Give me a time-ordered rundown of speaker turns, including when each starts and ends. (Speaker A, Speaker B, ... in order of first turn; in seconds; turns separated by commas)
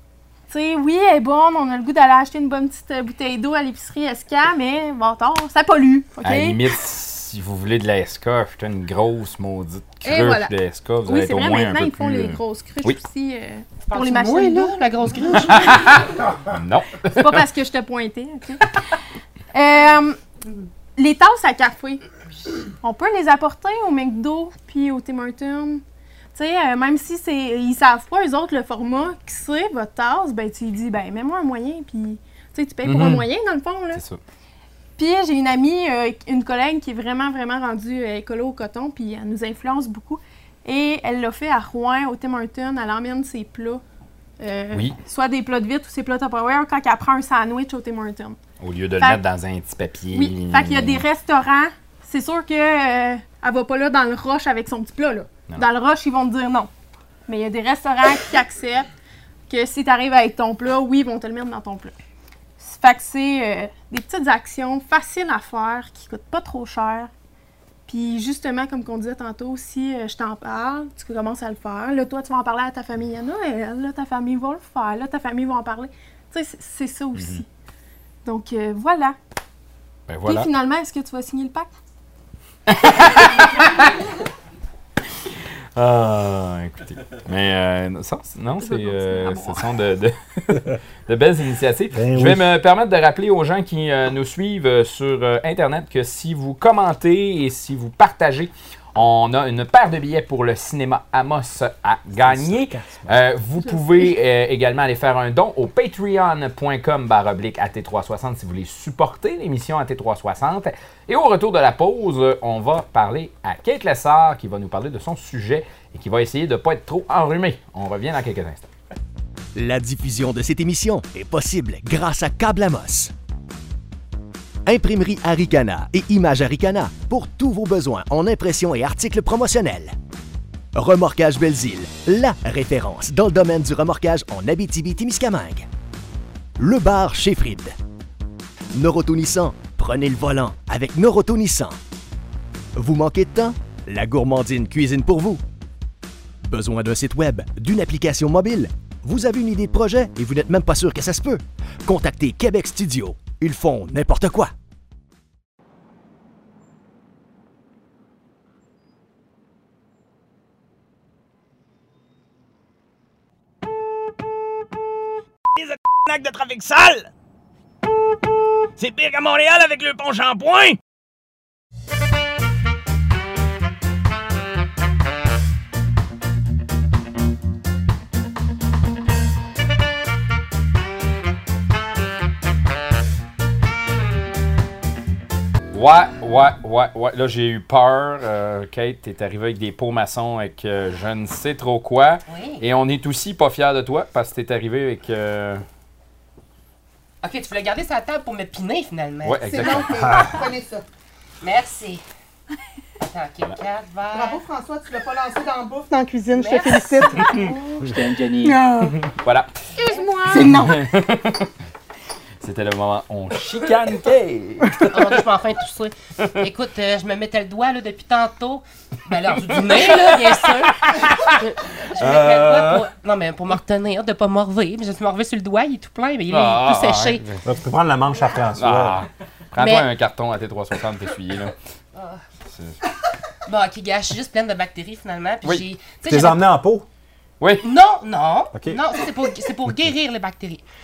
Speaker A: 0.5-6.6, Speaker B: 6.2-13.0, Speaker A: 10.0-10.5, Speaker A: 11.1-14.8, Speaker C: 13.9-16.1, Speaker B: 15.4-17.5, Speaker A: 17.1-18.6, Speaker A: 19.5-20.2, Speaker A: 20.9-22.0, Speaker A: 22.8-25.8, Speaker A: 26.3-34.0, Speaker B: 32.8-33.3, Speaker B: 33.9-34.2, Speaker A: 35.0-43.8, Speaker A: 44.4-48.4, Speaker B: 44.7-45.0, Speaker B: 48.6-51.0, Speaker A: 50.1-56.7, Speaker A: 57.3-58.9, Speaker A: 59.5-61.9, Speaker A: 62.6-67.1, Speaker A: 67.9-77.5, Speaker B: 77.1-77.4, Speaker A: 78.2-79.2, Speaker B: 80.1-80.5, Speaker A: 80.2-81.7, Speaker B: 82.7-83.9, Speaker B: 85.8-118.7, Speaker A: 88.6-89.6, Speaker D: 91.9-92.5, Speaker D: 102.2-103.1, Speaker E: 119.5-123.1, Speaker E: 124.7-129.9, Speaker E: 130.7-135.7, Speaker E: 136.6-137.7, Speaker E: 138.7-141.8, Speaker E: 142.8-145.4, Speaker E: 146.4-154.5, Speaker F: 165.6-167.1, Speaker F: 168.8-170.8, Speaker B: 185.7-195.6, Speaker C: 192.3-192.6, Speaker C: 197.2-199.8, Speaker B: 199.2-199.9, Speaker G: 199.5-200.8, Speaker D: 199.9-200.4, Speaker C: 201.4-202.0, Speaker C: 203.0-204.4, Speaker G: 204.1-207.9, Speaker C: 206.3-207.6, Speaker B: 207.2-208.6, Speaker G: 208.4-209.1, Speaker B: 209.2-209.5, Speaker C: 209.8-210.2, Speaker G: 209.9-210.9, Speaker B: 210.4-211.5, Speaker B: 212.4-215.2, Speaker C: 214.9-227.2, Speaker B: 219.4-221.4, Speaker B: 222.0-222.8, Speaker B: 226.3-227.4, Speaker D: 227.4-229.0, Speaker B: 228.6-231.5, Speaker C: 229.6-229.9, Speaker C: 231.9-232.2, Speaker B: 232.5-232.8, Speaker C: 233.4-236.4, Speaker D: 236.0-236.8, Speaker B: 237.4-237.6, Speaker C: 237.6-240.6, Speaker D: 238.5-238.8